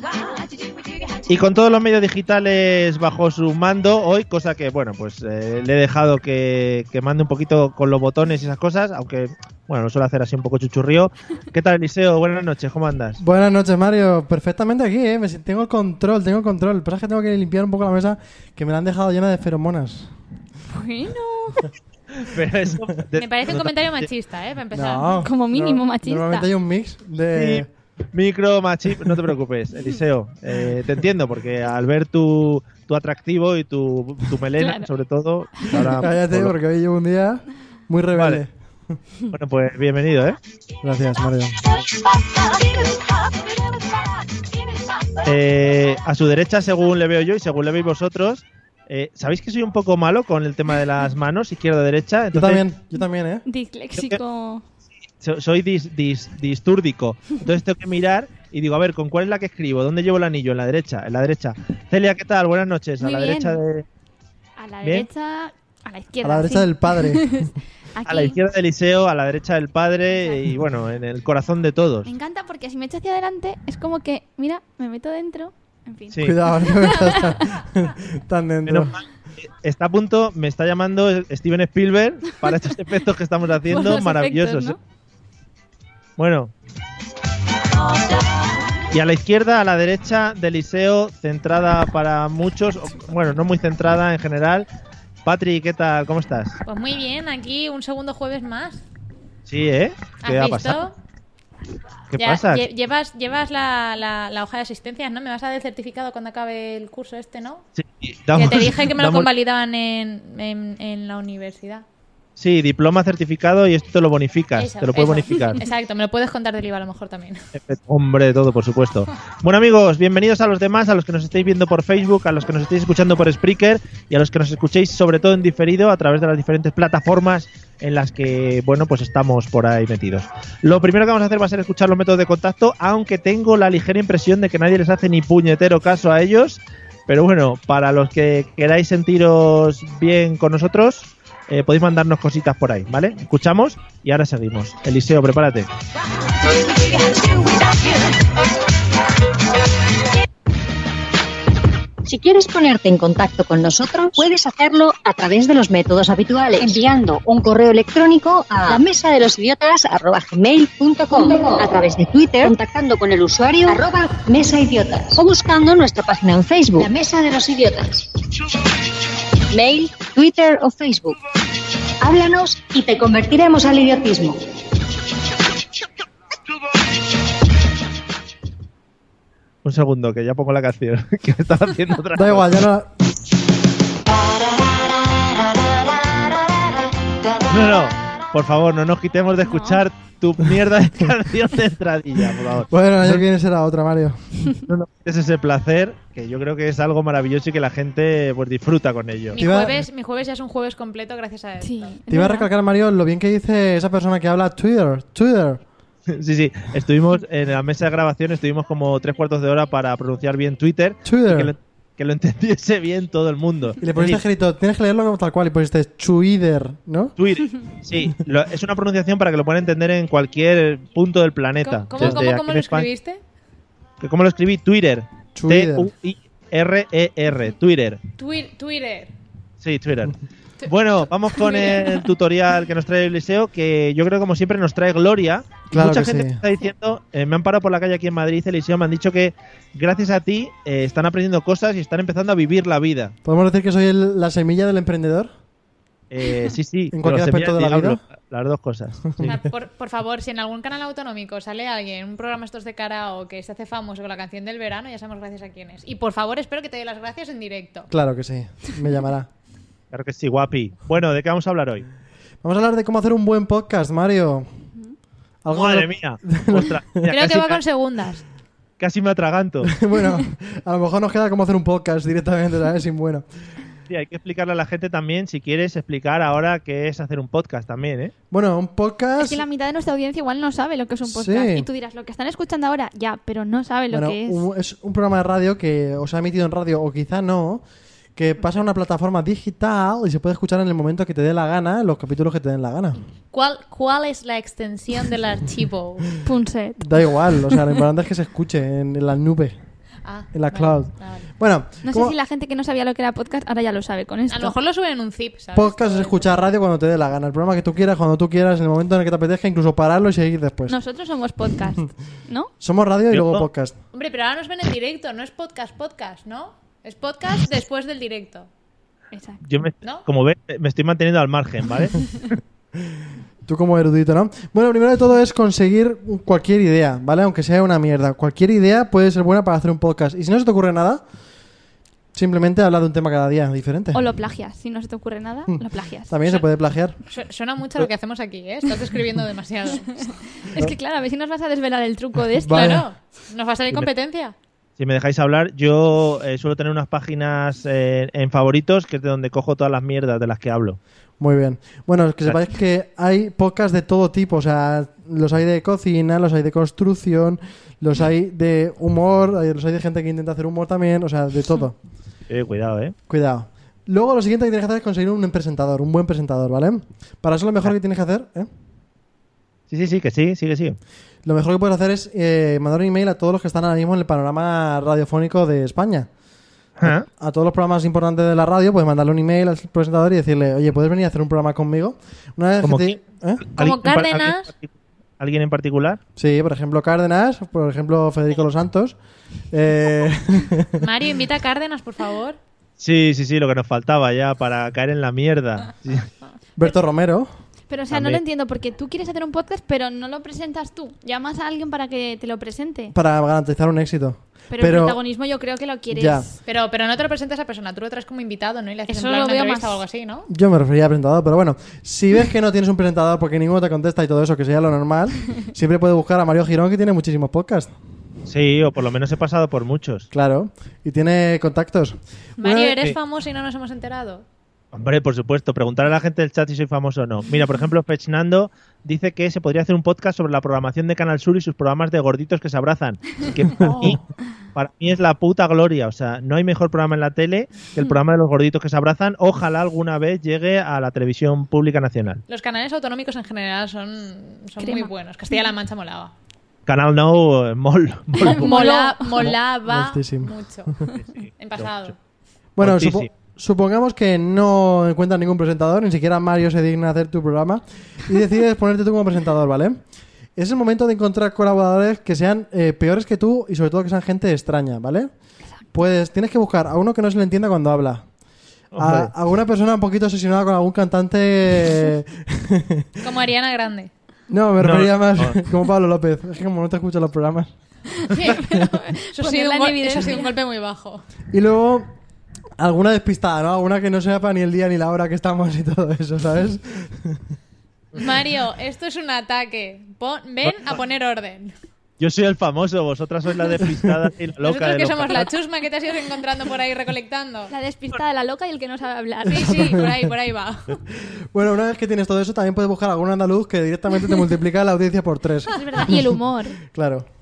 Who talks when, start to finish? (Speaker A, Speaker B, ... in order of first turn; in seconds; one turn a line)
Speaker A: 1.3-13.2
Speaker B: 13.2-20.1
Speaker C: 20.7-21.7
Speaker A: 22.2-24.1
Speaker D: 23.2-25.3
Speaker B: 24.7-27.7
Speaker C: 25.2-26.5
Speaker A: 27.3-36.5
Speaker C: 34.6-34.9
Speaker B: 35.7-38.5
Speaker A: 38.1-38.4
Speaker A: 39.3-40.4
Speaker B: 40.8-41.6
Speaker A: 45.2-52.6
Speaker B: 52.3-53.4
Speaker C: 53.5-54.6
Speaker A: 55.2-63.9
Speaker C: 63.0-63.6
Speaker C: 64.6-68.4
Speaker B: 66.2-67.5
Speaker A: 68.1-72.1
Speaker C: 72.1-77.6
Speaker B: 76.2-78.9
Speaker A: 78.7-84.8
Speaker C: 83.7-84.8
Speaker A: 86.2-86.5
Speaker A: 88.9-94.7
Speaker A: 95.2-96.6
Speaker D: 96.7-98.8
Speaker A: 99.5-100.8
Speaker D: 100.2-101.0
Speaker A: 102.1-102.7
Speaker D: 102.2-107.7
Speaker A: 107.8-109.3
Speaker D: 108.3-111.8
Speaker A: 112.4-115.6
Speaker D: 114.6-117.4
Speaker A: 117.5-145.7
Speaker E: 152.1-168.1
Speaker E: 169.5-171.2
Speaker E: 172.0-174.4
Speaker A: 179.6-182.6
Speaker B: 182.2-182.9
Speaker A: 187.5-193.2
Speaker C: 189.4-189.8
Speaker B: 192.7-194.5
Speaker A: 194.7-199.4
Speaker D: 199.3-202.0
Speaker B: 199.3-199.9
Speaker C: 201.6-202.5
Speaker B: 202.1-205.6
Speaker A: 206.1-214.2
Speaker B: 211.0-211.5
Speaker B: 213.8-217.1
Speaker A: 217.2-222.9
Speaker D: 221.6-223.2
Speaker A: 224.0-228.0
Speaker B: 225.3-225.9
Speaker D: 228.2-229.1
Speaker A: 229.6-243.2
Speaker D: 231.3-231.8
Speaker B: 235.7-236.4
Speaker B: 243.2-245.3
Speaker A: 246.1-249.4
Speaker B: 246.9-248.0
Speaker D: 249.3-257.9
Speaker B: 257.9-259.3
Speaker A: 259.9-261.9
Speaker B: 262.4-264.5
Speaker B: 265.4-267.1
Speaker A: 265.5-267.6
Speaker D: 267.1-268.2
Speaker A: 268.8-269.7
Speaker B: 269.6-273.2
Speaker A: 273.9-278.1
Speaker B: 278.3-279.4
Speaker C: 279.2-284.5
Speaker B: 281.1-281.7
Speaker B: 283.9-287.6
Speaker B: 288.1-293.0
Speaker D: 293.3-296.2
Speaker C: 296.2-297.6
Speaker B: 296.8-299.6
Speaker D: 300.1-301.3
Speaker B: 300.3-302.2
Speaker C: 301.9-304.6
Speaker D: 304.3-306.3
Speaker B: 305.6-310.8
Speaker C: 310.7-312.5
Speaker B: 312.6-313.8
Speaker A: 313.1-313.5
Speaker D: 313.9-318.5
Speaker C: 319.1-319.4
Speaker A: 319.4-322.4
Speaker B: 323.5-331.0
Speaker B: 332.1-334.0
Speaker C: 333.9-336.1
Speaker B: 335.5-337.0
Speaker D: 337.1-340.7
Speaker C: 340.2-342.8
Speaker B: 342.4-342.9
Speaker D: 342.5-344.3
Speaker A: 344.8-350.8
Speaker B: 351.2-361.8
Speaker A: 362.3-362.9
Speaker B: 363.1-368.5
Speaker A: 369.7-370.8
Speaker B: 371.2-376.1
Speaker A: 376.8-377.1
Speaker B: 376.8-383.5
Speaker A: 382.6-386.0
Speaker D: 383.6-384.5
Speaker B: 386.2-389.0
Speaker B: 389.5-390.9
Speaker D: 390.8-392.4
Speaker A: 392.8-396.1
Speaker B: 396.6-397.3
Speaker C: 397.7-402.9
Speaker A: 397.9-398.2
Speaker B: 402.9-405.0
Speaker C: 404.5-406.3
Speaker B: 405.9-406.3
Speaker D: 406.5-410.3
Speaker C: 408.9-409.8
Speaker B: 410.3-417.7
Speaker A: 418.3-420.1
Speaker B: 420.1-422.8
Speaker D: 422.4-424.2
Speaker A: 424.7-434.0
Speaker B: 433.6-434.0
Speaker A: 434.6-442.2
Speaker D: 442.3-446.1
Speaker C: 444.6-444.9
Speaker A: 446.7-448.5
Speaker C: 448.2-449.3
Speaker D: 448.2-452.0
Speaker B: 449.3-450.4
Speaker A: 450.9-451.9
Speaker B: 452.6-459.8
Speaker A: 452.6-453.1
Speaker B: 460.4-465.1
Speaker B: 465.7-468.1
Speaker A: 468.7-469.1
Speaker B: 468.8-472.9
Speaker D: 473.0-473.9
Speaker B: 474.3-477.5
Speaker A: 474.6-475.4
Speaker C: 478.0-480.3
Speaker D: 478.1-478.4
Speaker D: 479.1-481.0
Speaker B: 481.3-481.9
Speaker B: 482.6-487.2
Speaker D: 487.9-491.5
Speaker A: 492.0-495.3
Speaker D: 494.4-497.5
Speaker C: 497.5-499.8
Speaker D: 499.3-500.8
Speaker B: 499.4-500.1
Speaker B: 501.1-507.1
Speaker C: 505.6-506.6